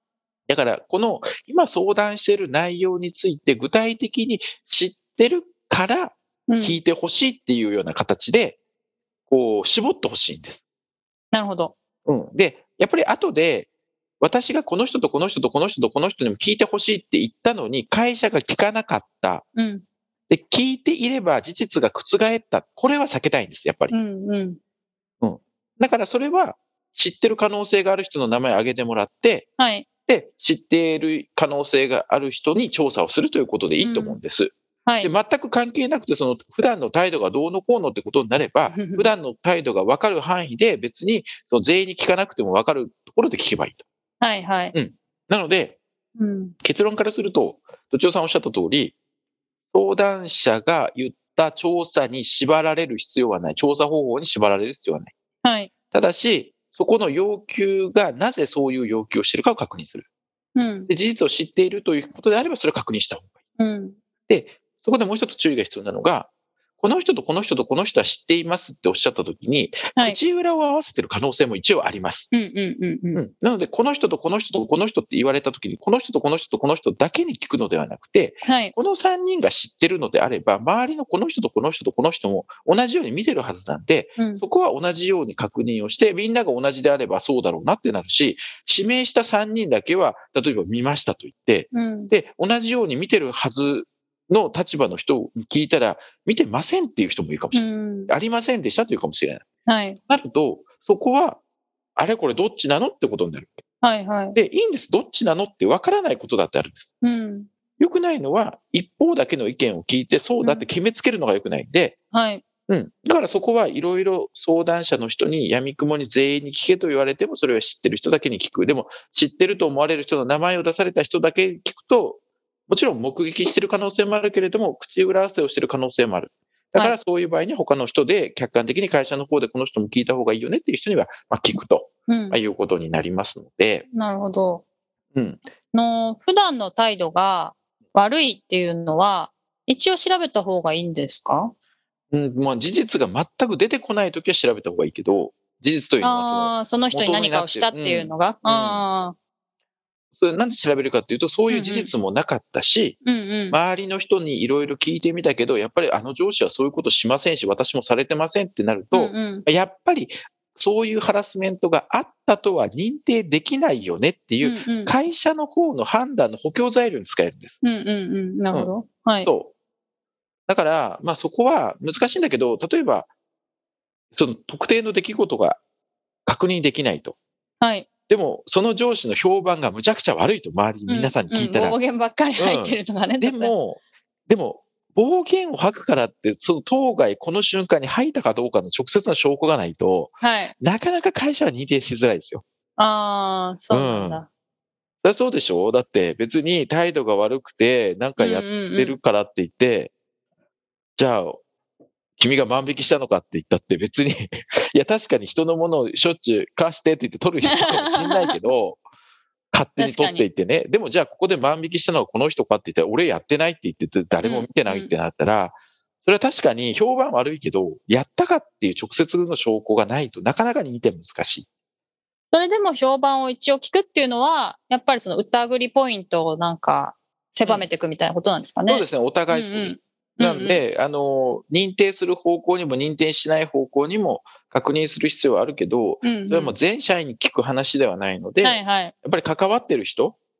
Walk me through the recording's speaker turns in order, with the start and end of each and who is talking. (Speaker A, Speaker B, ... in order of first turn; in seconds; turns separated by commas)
Speaker A: 0.5-8.6, Speaker B: 6.5-6.8, Speaker A: 9.3-10.6, Speaker B: 11.3-11.7, Speaker A: 12.1-13.7, Speaker A: 14.2-19.5, Speaker B: 19.6-19.8, Speaker A: 20.3-23.9, Speaker B: 23.9-24.6, Speaker A: 25.2-29.5, Speaker B: 29.6-29.9, Speaker A: 30.0-43.8, Speaker B: 33.8-34.2, Speaker B: 34.9-35.1, Speaker B: 38.7-39.1, Speaker B: 44.2-44.7, Speaker A: 44.7-45.8, Speaker B: 46.2-46.5, Speaker A: 46.6-48.9, Speaker A: 49.7-55.1, Speaker B: 55.4-55.7, Speaker A: 55.9-60.0, Speaker B: 60.5-60.9, Speaker A: 60.9-63.4, Speaker B: 63.6-64.0, Speaker A: 64.3-66.3, Speaker A: 66.8-72.3, Speaker B: 72.3-73.2, Speaker A: 73.1-99.5, Speaker B: 78.4-78.7, Speaker B: 84.2-84.4, Speaker B: 91.7-92.1, Speaker B: 97.5-98.1, Speaker B: 99.7-100.0, Speaker A: 100.1-101.4, Speaker A: 102.0-103.6, Speaker B: 103.8-104.4, Speaker A: 104.3-106.9, Speaker B: 107.0-107.5, Speaker A: 107.8-112.0, Speaker B: 112.1-112.4, Speaker A: 112.7-133.8, Speaker B: 132.1-132.4, Speaker B: 133.9-134.6, Speaker A: 135.1-135.4, Speaker B: 135.7-141.5, Speaker A: 142.1-148.8, Speaker B: 146.0-149.1, Speaker A: 150.2-153.0, Speaker B: 151.5-151.9, Speaker B: 153.0-153.6, Speaker A: 153.5-167.6, Speaker B: 158.9-159.4, Speaker B: 164.4-164.9, Speaker B: 167.6-169.3, Speaker A: 169.2-169.5, Speaker A: 170.5-173.1, Speaker A: 174.1-175.6, Speaker A: 176.2-177.2, Speaker B: 177.6-177.9, Speaker A: 178.1-181.8, Speaker B: 180.9-183.5, Speaker A: 182.4-192.4, Speaker B: 190.2-190.5, Speaker B: 192.8-194.3, Speaker A: 193.7-194.2, Speaker A: 195.0-199.9, Speaker B: 198.2-199.0, Speaker A: 201.0-201.4, Speaker A: 202.2-208.8, Speaker B: 207.4-208.4, Speaker A: 209.5-221.4, Speaker B: 209.8-210.2, Speaker B: 214.2-214.9, Speaker B: 222.3-230.6, Speaker A: 228.7-240.2, Speaker B: 236.0-236.5, Speaker B: 238.4-238.9